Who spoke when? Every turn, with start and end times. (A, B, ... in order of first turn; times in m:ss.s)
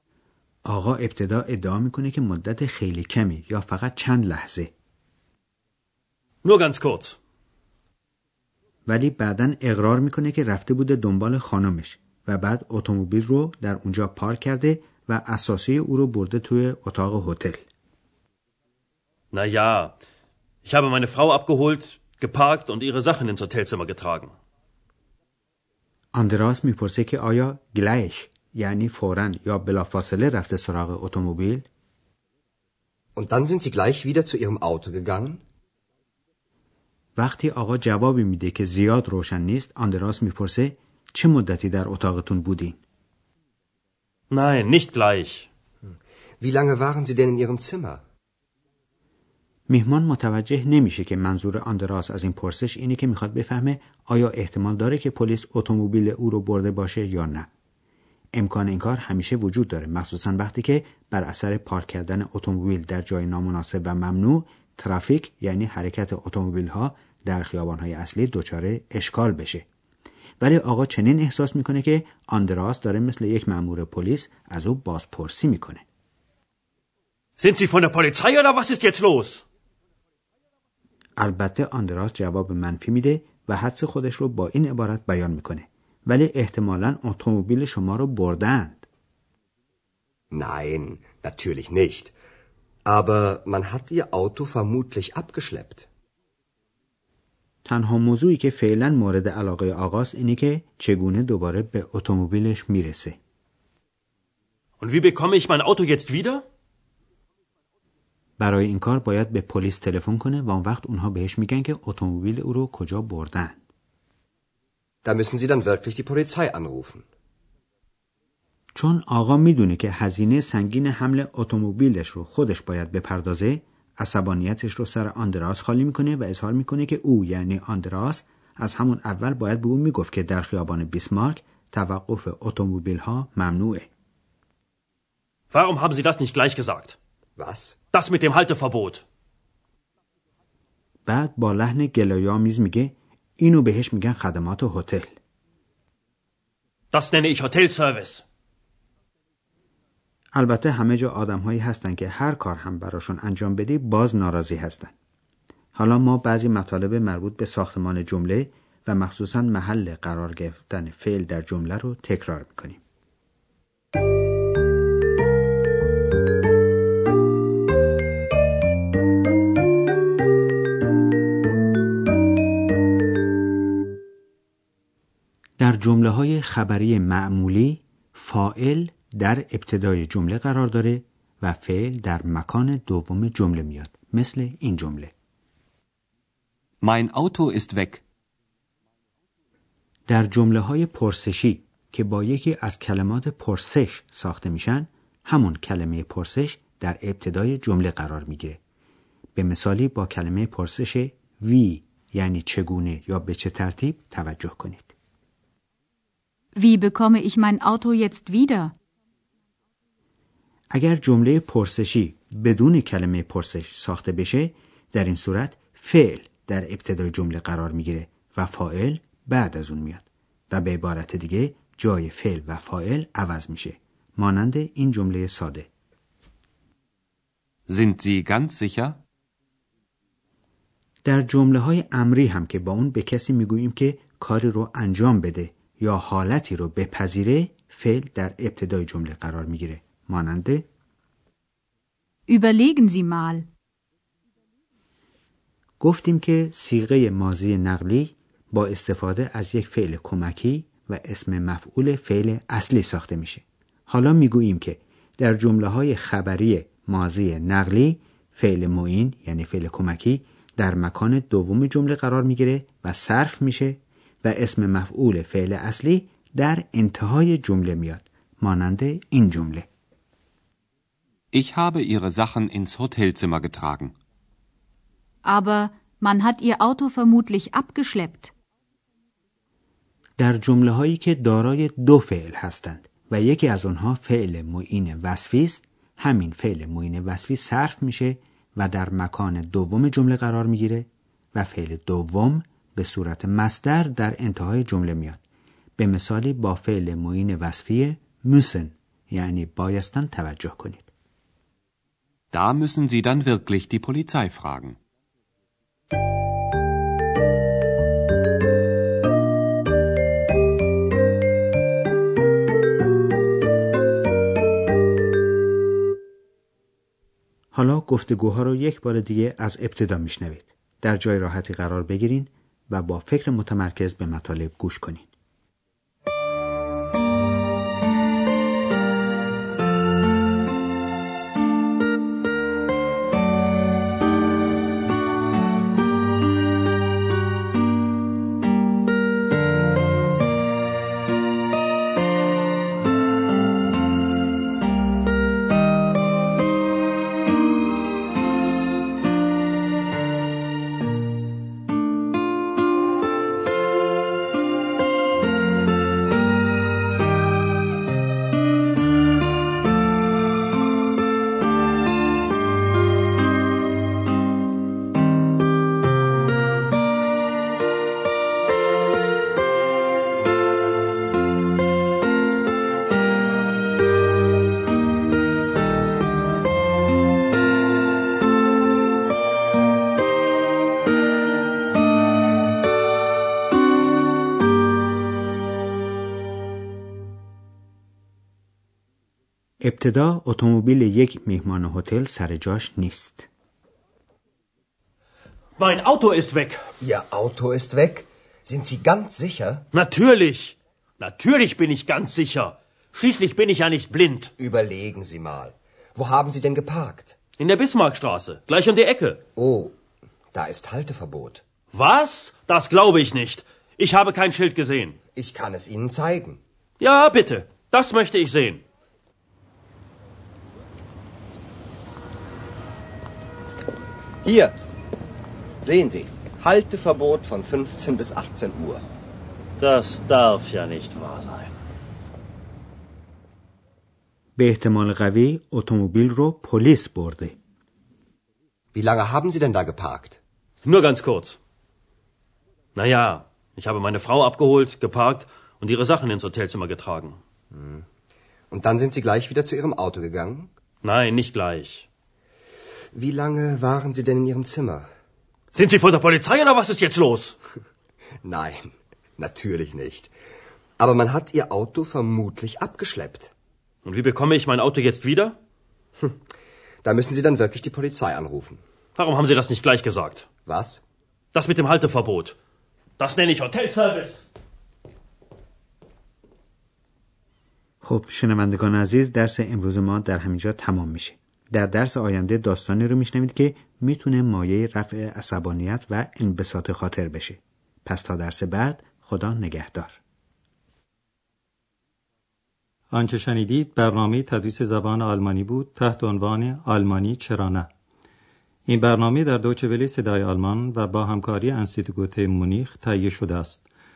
0:00.6-0:04.7 A
0:06.4-0:07.2 B
0:08.9-0:17.6 A
0:19.3-0:19.9 B
0:20.6-0:24.3 B
0:26.1-0:31.6 A
0:33.2-0:35.4 C
0:37.2-0:42.8 A
0:44.3-0:45.5 B
0:46.4-0:48.0 C
0:49.7-0:57.5 A
0:58.3-1:09.6 A
1:10.4-1:15.8 A
1:17.4-1:19.4 B
1:21.2-1:28.8 A
1:30.3-1:32.1 C
1:32.9-1:35.8 C
1:37.6-1:43.2 A
1:44.8-1:46.4 B
1:48.4-1:53.6 A
1:55.0-1:57.0 C
1:58.7-2:13.9 A
2:15.5-2:17.0 B
2:17.4-2:17.8 C
2:17.9-2:19.0 B
2:21.0-2:25.2 A
2:26.9-2:28.2 B
2:30.3-2:34.9 A
2:35.7-2:42.8 A
2:55.6-3:05.1 A
3:06.8-3:08.0 D
3:10.1-3:18.6 A
3:19.3-3:24.9 A
3:26.6-3:28.7 E
3:30.7-3:45.7 A
3:47.7-3:49.0 D
3:51.0-4:00.6 A
4:02.3-4:03.4 E
4:05.8-4:29.7 A
4:31.3-4:33.9 D
4:35.2-4:38.3 E
4:40.2-4:55.2 A
4:55.8-5:00.9 A
5:02.3-5:04.8 D
5:17.5-5:25.1 A
6:29.6-6:33.3 A
6:35.6-6:36.6 B
6:36.8-6:39.6 C
6:39.7-6:44.3 B
6:44.4-6:47.1 C
6:47.4-6:49.2 B
6:49.4-6:49.7 C
6:50.3-6:51.4 C
6:51.7-6:55.0 B
6:55.1-6:56.4 C
6:56.8-6:58.6 B
7:04.2-7:04.5 C
7:05.6-7:08.8 C
7:09.6-7:11.6 B
7:14.4-7:17.4 A
7:18.7-7:20.2 C
7:20.6-7:21.4 B
7:22.8-7:27.2 B
7:27.5-7:27.8 C
7:28.5-7:30.5 C
7:30.8-7:31.9 B
7:32.9-7:34.9 C
7:35.5-7:37.4 B
7:38.2-7:40.1 C
7:40.8-7:43.3 C
7:43.8-7:45.4 B
7:46.8-7:48.6 C
7:49.0-7:50.3 B
7:50.4-7:50.8 C
7:51.3-7:52.4 B
7:53.0-7:54.2 B
7:57.8-8:10.0 A
8:12.9-8:17.7 F
8:18.7-8:23.7 F